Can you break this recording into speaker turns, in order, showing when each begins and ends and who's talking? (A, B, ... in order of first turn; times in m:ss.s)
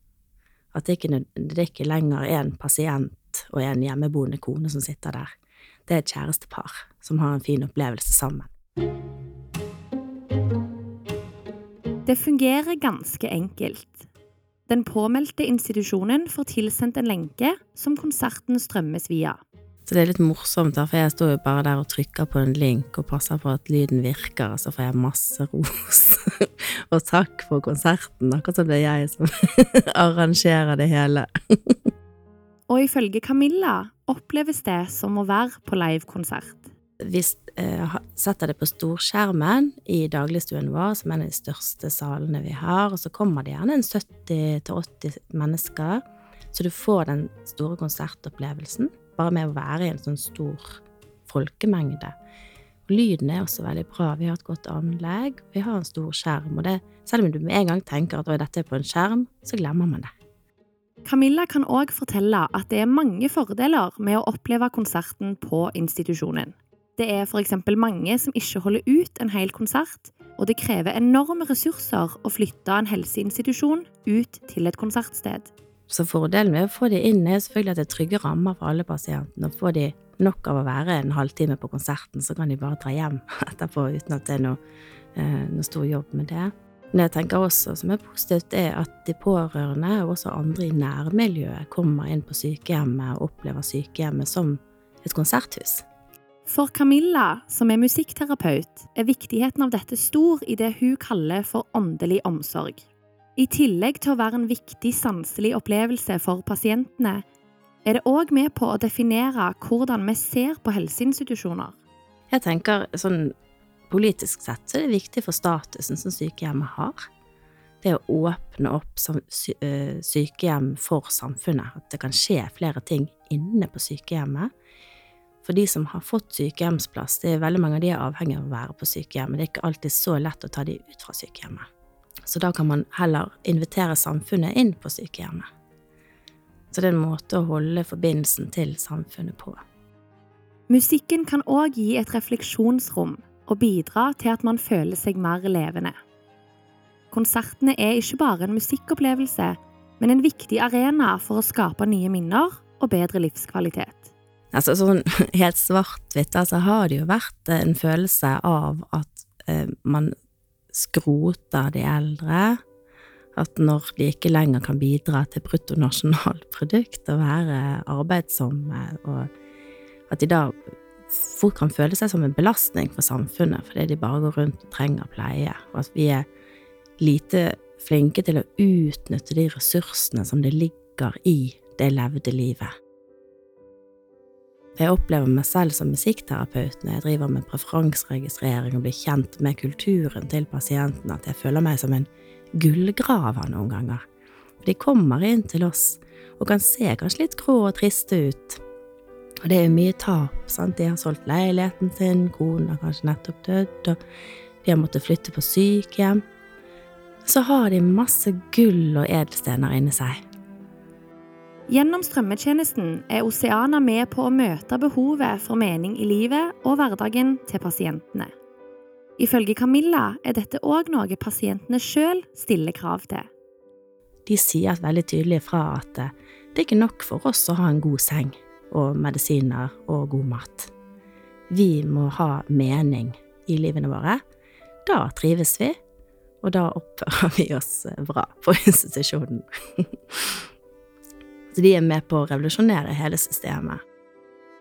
0:00.7-0:05.3 A
0:05.9-0:08.5 A
0:12.0-0:14.1 B
0:14.7-0:19.4 B
0:19.8-0:31.9 A
0:32.7-0:36.7 B
0:37.0-0:52.1 A
0:52.9-1:00.1 A
1:01.0-1:15.5 B
1:15.9-1:24.6 A
1:25.1-1:35.8 A
1:36.4-1:47.2 B
1:47.8-1:51.7 B
1:52.3-1:53.3 A
1:53.9-1:57.0 A
1:57.8-2:04.5 A
2:05.4-2:11.6 A
2:12.2-2:15.4 A
2:16.7-2:19.6 A
2:20.7-2:25.9 B
2:27.1-2:34.1 B
2:34.5-2:40.1 A
2:40.7-2:42.6 A
2:43.3-2:49.3 A
2:50.1-2:56.2 A
2:57.0-3:02.7 A
3:04.8-3:14.0 A
3:14.6-3:18.6 A
3:19.4-3:24.0 A
3:24.6-3:26.2 A
3:27.2-3:30.2 A
3:31.7-3:38.3 B
3:39.2-3:43.3 B
3:44.2-3:50.7 A
3:51.5-3:54.2 A
3:54.8-3:55.8 A
3:56.4-4:00.4 A
4:01.5-4:03.8 A